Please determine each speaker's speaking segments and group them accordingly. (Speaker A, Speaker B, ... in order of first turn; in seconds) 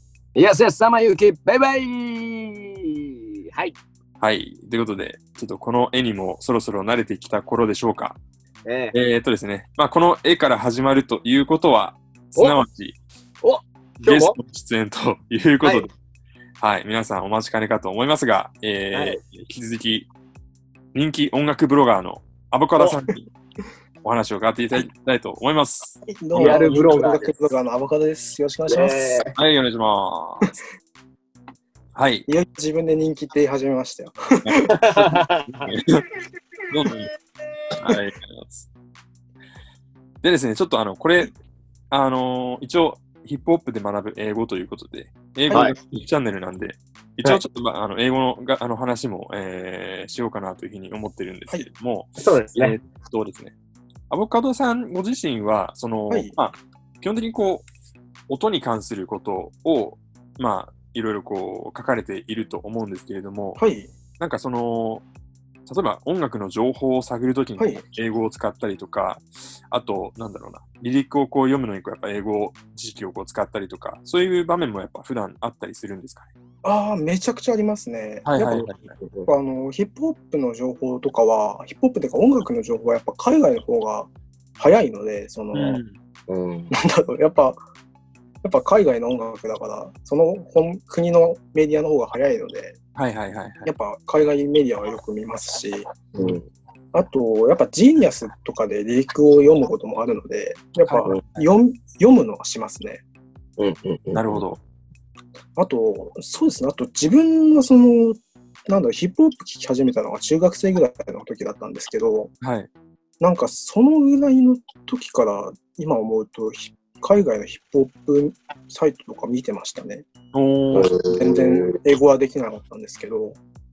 Speaker A: 0.3-2.8, 8.7-9.0, 12.3-12.6, 13.4-14.3, 15.6-15.9, 18.9-19.2, 26.3-27.5, 28.7-29.3, 34.7-35.6, 52.2-52.8, 86.3-86.7, 103.6-104.1, 120.8-121.4
Speaker B: 4.2-8.2, 8.9-13.0, 14.0-15.9, 16.6-20.1, 20.9-23.3, 24.0-26.8, 29.3-30.5, 31.9-32.3, 34.5-36.0, 36.7-37.1, 37.8-38.7, 40.2-41.3, 41.9-53.5, 54.1-57.7, 58.3-63.6, 64.2-65.1, 65.7-76.3, 78.3-78.8, 85.5-86.0, 93.0-93.7, 100.9-101.5, 104.1-104.6, 112.4-112.7, 120.3-120.9
Speaker C: 26.1-29.2, 32.3-34.6, 56.1-56.4, 63.6-63.9, 67.6-67.8, 76.6-78.7, 79.3-85.8, 86.8-87.6, 88.4-92.8, 93.7-96.0, 96.9-103.0, 105.6-112.3, 113.2-120.1, 120.7-123.4